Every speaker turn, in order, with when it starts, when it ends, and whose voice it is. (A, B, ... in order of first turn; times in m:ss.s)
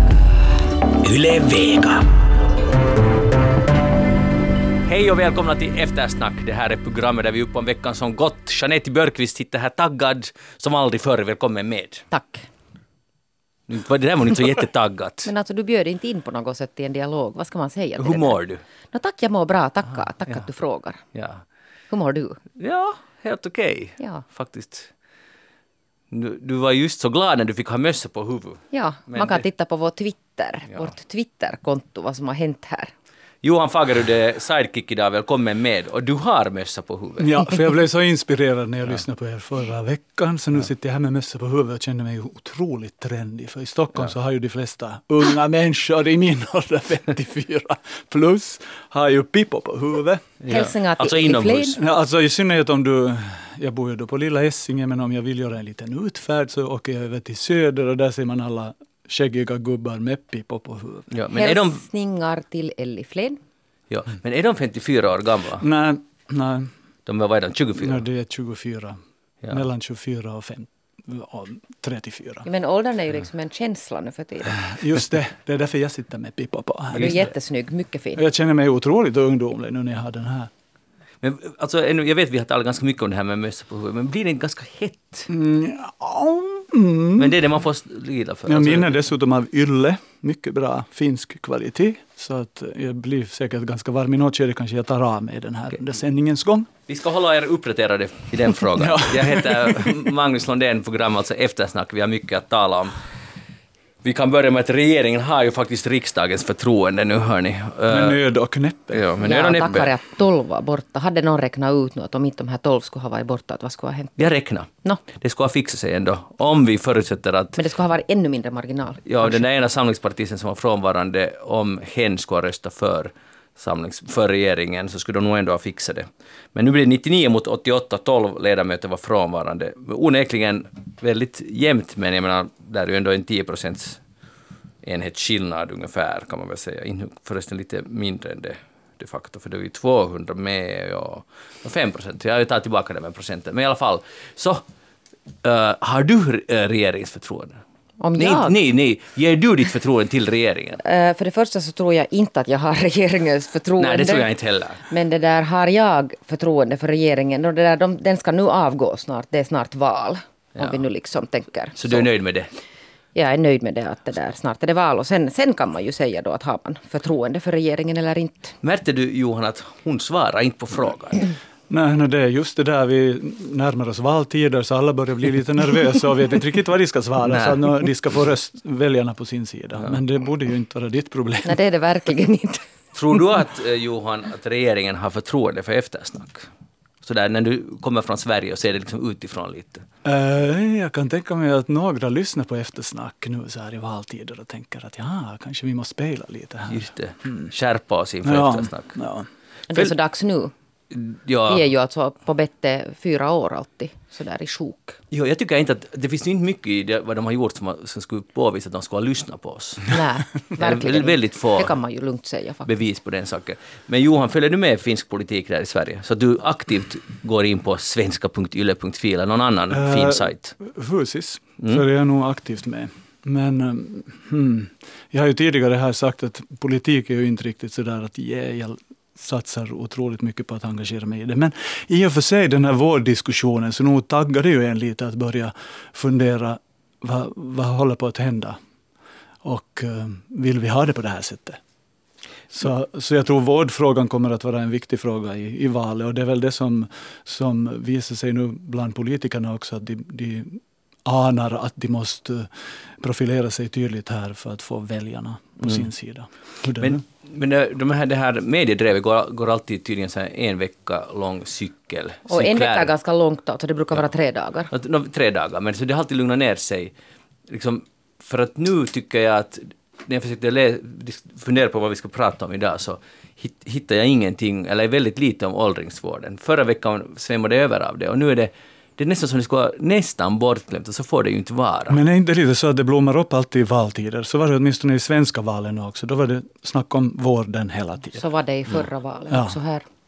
0:01.0-0:02.0 A
0:04.9-0:12.1 A
0:12.1-0:12.5 B
0:13.7-0:15.3 A
0:15.2-0:18.4 B
0:18.0-0:18.6 A
0:18.9-0:21.0 B
0:21.1-0:21.4 A
0:21.9-0:22.4 B
0:22.6-0:24.9 A
0:24.0-0:24.2 B
0:26.1-0:29.4 A
0:28.7-0:32.9 B
0:33.4-0:37.4 A
0:37.2-0:50.3 C
0:50.4-0:51.8 A
0:50.5-0:51.8 B
0:51.8-1:01.1 C
1:01.1-1:01.8 A
1:01.3-1:03.4 B
1:03.9-1:05.6 A
1:05.6-1:06.7 C
1:07.1-1:08.0 A
1:07.8-1:09.0 C
1:09.5-1:12.4 C
1:12.4-1:14.7 B
1:14.5-1:17.2 C
1:16.9-1:17.3 A
1:17.0-1:18.2 B
1:18.2-1:20.5 C
1:21.2-1:25.3 A
1:25.3-1:27.4 C
1:27.2-1:28.9 A
1:28.5-1:36.7 C
1:36.9-1:43.0 A
1:38.8-1:40.1 C
1:44.0-1:48.2 A
1:47.9-1:49.1 C
1:48.9-1:49.9 A
1:49.2-1:54.2 B
1:54.2-1:57.6 A
1:57.6-1:59.4 B
1:59.1-2:14.0 A
2:14.8-2:24.6 A
2:25.4-2:27.6 A
2:28.0-2:28.6 B
2:28.2-2:30.8 A
2:30.8-2:34.3 B
2:33.8-2:34.8 A
2:34.9-2:42.1 B
2:41.8-2:42.5 A
2:43.1-2:48.6 B
2:48.6-2:51.3 A
2:51.7-3:01.6 C
2:57.2-2:57.6 A
3:01.4-3:02.6 B
3:02.9-3:06.5 A
3:07.0-3:09.8 A
3:10.0-3:17.5 C
3:16.7-3:19.0 A
3:18.2-3:19.3 C
3:19.7-3:20.5 B
3:20.9-3:21.6 A
3:21.5-3:25.0 B
3:25.1-3:30.0 A
3:29.9-3:32.7 B
3:30.5-3:31.7 A
3:32.6-3:40.5 A
3:39.7-3:58.6 C
3:59.4-4:01.6 C
4:02.5-4:17.0 C
4:15.6-4:15.8 A
4:16.8-4:22.9 A
4:22.3-4:24.7 B
4:24.7-4:26.9 A
4:27.5-4:42.0 A
4:41.9-4:48.2 C
4:48.2-4:49.8 B
4:49.3-4:49.6 C